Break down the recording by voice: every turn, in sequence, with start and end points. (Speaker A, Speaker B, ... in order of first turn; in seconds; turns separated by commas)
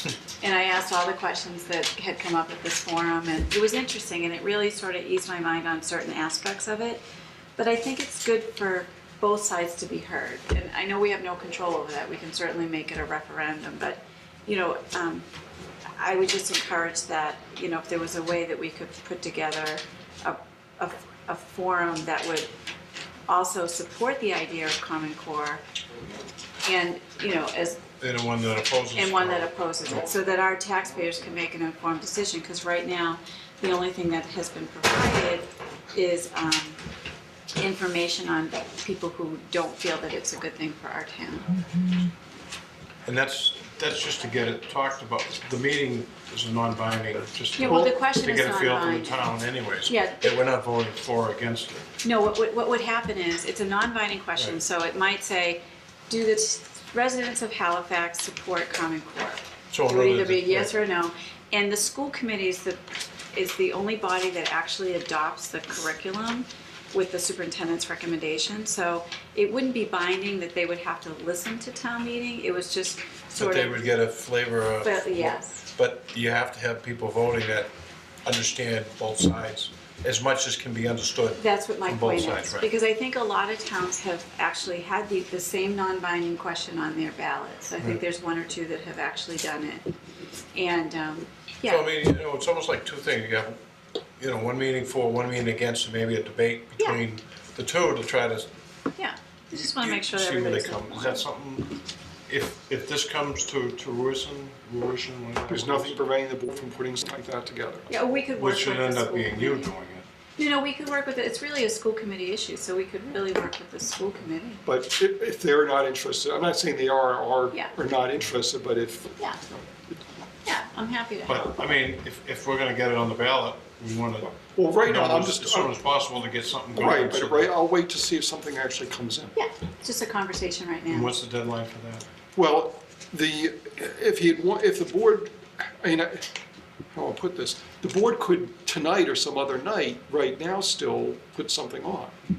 Speaker A: 0.4-7.0, Speaker A: 7.6-15.2, Speaker A: 16.0-22.5, Speaker A: 23.3-25.6, Speaker A: 26.6-27.8, Speaker B: 28.0-29.7, Speaker A: 28.9-36.8, Speaker A: 37.6-41.6, Speaker B: 43.0-51.9, Speaker A: 47.6-49.3, Speaker A: 49.9-50.3, Speaker A: 52.0-62.8, Speaker B: 59.7-60.7, Speaker A: 63.3-73.8, Speaker B: 73.3-77.7, Speaker A: 74.8-75.6, Speaker B: 78.2-82.7, Speaker A: 81.4-89.8, Speaker A: 90.5-91.8, Speaker B: 91.7-93.6, Speaker B: 94.2-98.5, Speaker A: 99.0-101.2, Speaker B: 99.5-101.7, Speaker B: 102.3-106.0, Speaker C: 105.5-107.9, Speaker A: 107.9-109.7, Speaker B: 108.4-110.0, Speaker A: 110.4-114.6, Speaker C: 114.6-119.1, Speaker A: 120.5-121.5, Speaker B: 121.3-127.5, Speaker C: 124.4-125.7, Speaker C: 126.7-129.3, Speaker A: 129.3-131.2, Speaker B: 130.9-132.0, Speaker C: 132.3-136.3, Speaker C: 136.9-142.1